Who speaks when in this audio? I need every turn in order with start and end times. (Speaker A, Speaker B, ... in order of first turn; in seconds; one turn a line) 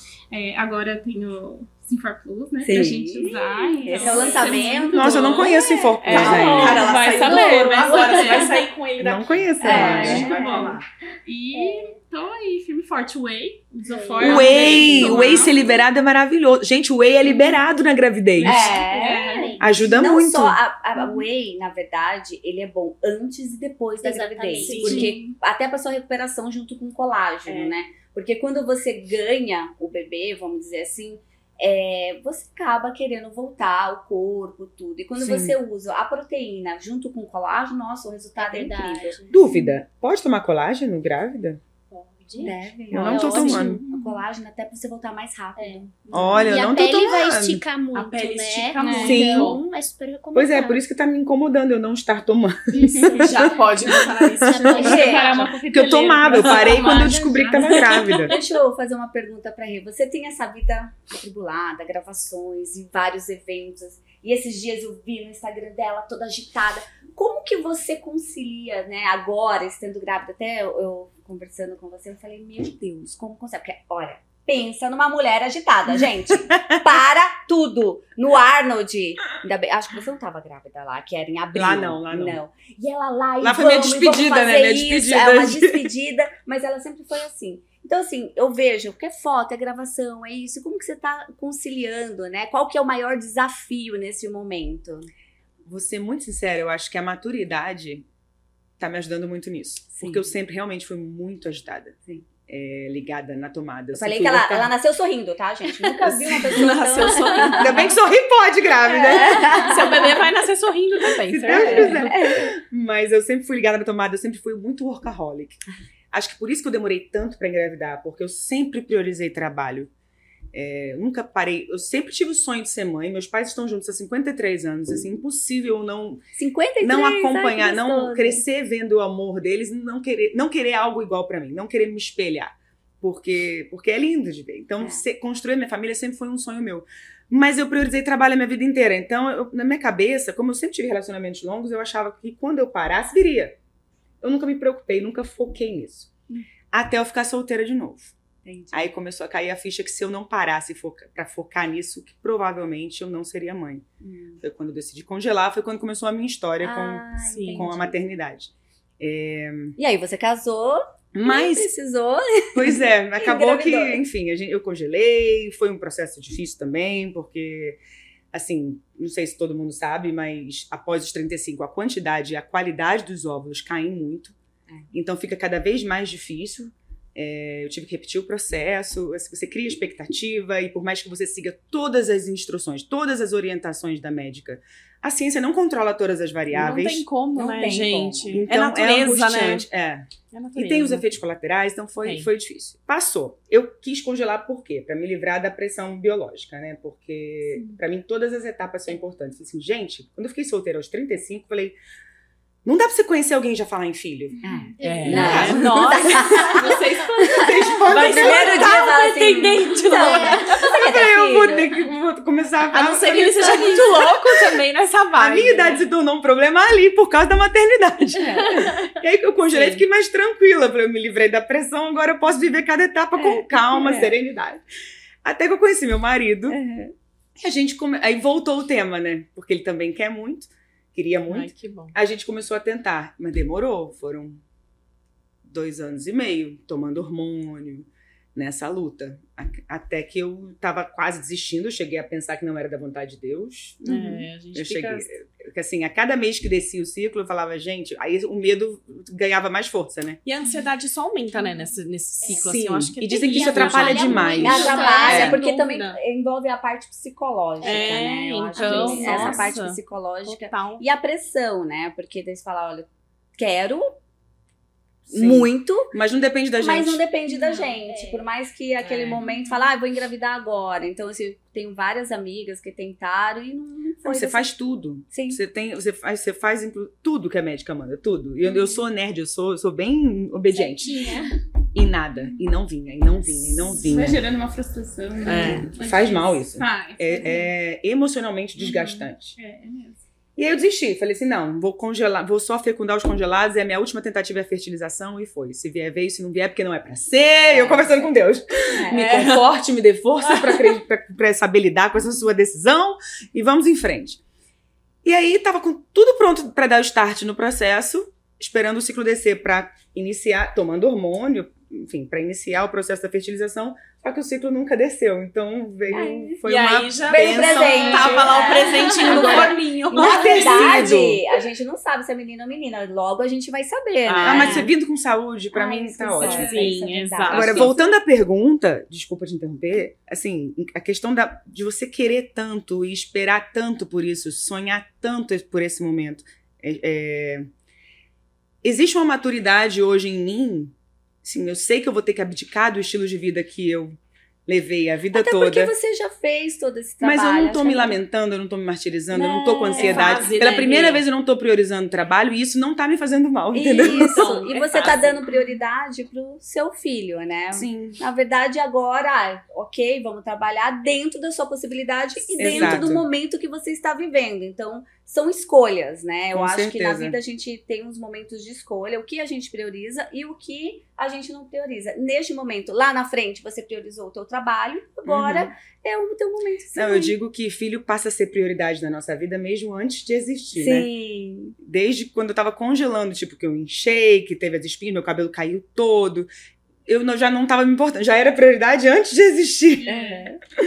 Speaker A: 0.3-8.7
Speaker B: 2.6-5.5
Speaker C: 4.9-6.9
Speaker D: 6.0-10.8
Speaker B: 6.1-7.0
Speaker E: 7.1-8.6
Speaker C: 9.0-10.7
Speaker B: 9.6-10.7
Speaker A: 9.6-15.7
Speaker E: 11.5-11.9
Speaker E: 13.8-15.8
Speaker C: 14.2-18.7
Speaker B: 14.2-15.3
Speaker A: 18.4-19.8
Speaker B: 18.4-39.2
Speaker E: 18.9-19.6
Speaker C: 19.6-20.6
Speaker A: 21.0-21.2
Speaker E: 24.0-25.1
Speaker D: 24.6-25.1
Speaker A: 24.8-25.4
Speaker D: 27.4-27.7
Speaker C: 35.2-35.5
Speaker E: 38.4-39.4
Speaker C: 39.3-41.6
Speaker E: 41.9-43.8
Speaker B: 42.4-46.5
Speaker C: 42.9-43.8
Speaker A: 43.8-44.2
Speaker E: 45.6-45.9
Speaker C: 46.1-47.6
Speaker E: 46.4-50.8
Speaker D: 47.9-49.6
Speaker A: 48.8-49.2
Speaker C: 49.0-49.5
Speaker C: 50.3-54.9
Speaker E: 52.7-53.8
Speaker D: 53.1-55.5
Speaker E: 54.4-55.5
Speaker A: 54.7-58.1
Speaker B: 54.8-55.5
Speaker C: 55.7-58.3
Speaker D: 56.3-57.0
Speaker D: 57.7-58.2
Speaker B: 58.2-95.1
Speaker C: 76.5-76.8
Speaker C: 81.5-82.4
Speaker C: 83.4-85.9
Speaker C: 95.6-98.0
Speaker C: 98.8-104.7
Speaker B: 100.0-100.3
Speaker B: 103.9-107.9
Speaker C: 105.8-106.6
Speaker D: 106.4-107.9
Speaker C: 107.5-109.8
Speaker B: 108.9-110.1
Speaker D: 109.2-112.1
Speaker C: 111.2-115.6
Speaker B: 111.5-112.5
Speaker C: 116.1-119.9
Speaker C: 120.5-126.2
Speaker B: 126.3-128.4
Speaker C: 126.8-143.6
Speaker C: 144.2-146.1
Speaker C: 146.7-148.1
Speaker B: 148.4-148.9
Speaker C: 148.7-153.8
Speaker B: 154.0-154.4
Speaker C: 154.4-159.8
Speaker B: 156.6-158.0
Speaker D: 157.3-157.7
Speaker B: 159.8-164.0
Speaker C: 161.1-161.7
Speaker C: 162.5-167.8
Speaker C: 168.3-174.3
Speaker C: 174.9-187.1
Speaker D: 186.5-189.7
Speaker B: 187.3-188.4
Speaker C: 188.3-201.8
Speaker D: 190.3-191.1
Speaker C: 202.6-204.4
Speaker A: 204.4-204.7
Speaker B: 204.4-211.7
Speaker E: 204.8-205.6
Speaker D: 204.8-207.1
Speaker C: 205.0-206.5
Speaker A: 206.6-207.4
Speaker C: 207.3-208.8
Speaker D: 207.9-210.6
Speaker E: 209.9-210.5
Speaker C: 210.5-214.5
Speaker D: 212.7-215.8
Speaker C: 215.2-224.6
Speaker B: 218.2-218.7
Speaker D: 219.5-219.8
Speaker B: 223.2-224.1
Speaker C: 225.2-226.6
Speaker B: 226.5-226.9
Speaker C: 227.4-234.4
Speaker D: 231.3-231.9
Speaker C: 235.4-243.8
Speaker D: 243.8-245.1
Speaker C: 244.5-250.2
Speaker D: 250.2-256.0
Speaker E: 252.2-252.5
Speaker C: 252.2-255.4
Speaker E: 253.1-255.4
Speaker B: 254.4-263.9
Speaker E: 257.6-258.0
Speaker D: 257.6-260.8
Speaker E: 258.5-259.4
Speaker C: 265.1-267.0
Speaker B: 265.1-265.9
Speaker B: 266.6-274.5
Speaker A: 267.3-267.8
Speaker E: 267.8-268.3
Speaker D: 268.8-269.2
Speaker A: 269.2-269.6
Speaker C: 274.0-281.1
Speaker B: 275.1-275.4
Speaker E: 280.5-281.3
Speaker C: 281.7-284.2
Speaker A: 283.7-287.5
Speaker D: 285.2-285.7
Speaker C: 285.4-289.3
Speaker A: 288.6-290.0
Speaker C: 290.4-304.2
Speaker B: 297.5-298.1
Speaker B: 298.7-299.2
Speaker D: 298.9-299.4
Speaker D: 300.2-300.8
Speaker C: 305.0-318.4
Speaker B: 315.9-316.4
Speaker D: 316.4-320.9
Speaker B: 317.1-324.7
Speaker A: 317.5-319.3
Speaker E: 318.8-319.3
Speaker C: 319.0-321.2
Speaker D: 324.0-324.7
Speaker C: 324.2-326.5
Speaker B: 325.5-327.8
Speaker A: 326.2-326.7
Speaker D: 326.2-327.7
Speaker C: 327.3-337.5
Speaker C: 338.6-345.7
Speaker B: 345.1-348.0
Speaker C: 347.0-354.2
Speaker B: 349.1-350.2
Speaker D: 349.7-351.0
Speaker B: 353.5-377.1
Speaker D: 353.8-355.3
Speaker C: 357.5-358.0
Speaker D: 362.4-362.8
Speaker C: 362.4-363.1
Speaker C: 366.3-367.1
Speaker C: 375.1-375.5
Speaker C: 376.7-380.9
Speaker B: 380.5-381.6
Speaker C: 381.6-386.3
Speaker C: 386.9-389.9
Speaker A: 389.7-390.3
Speaker B: 389.9-390.4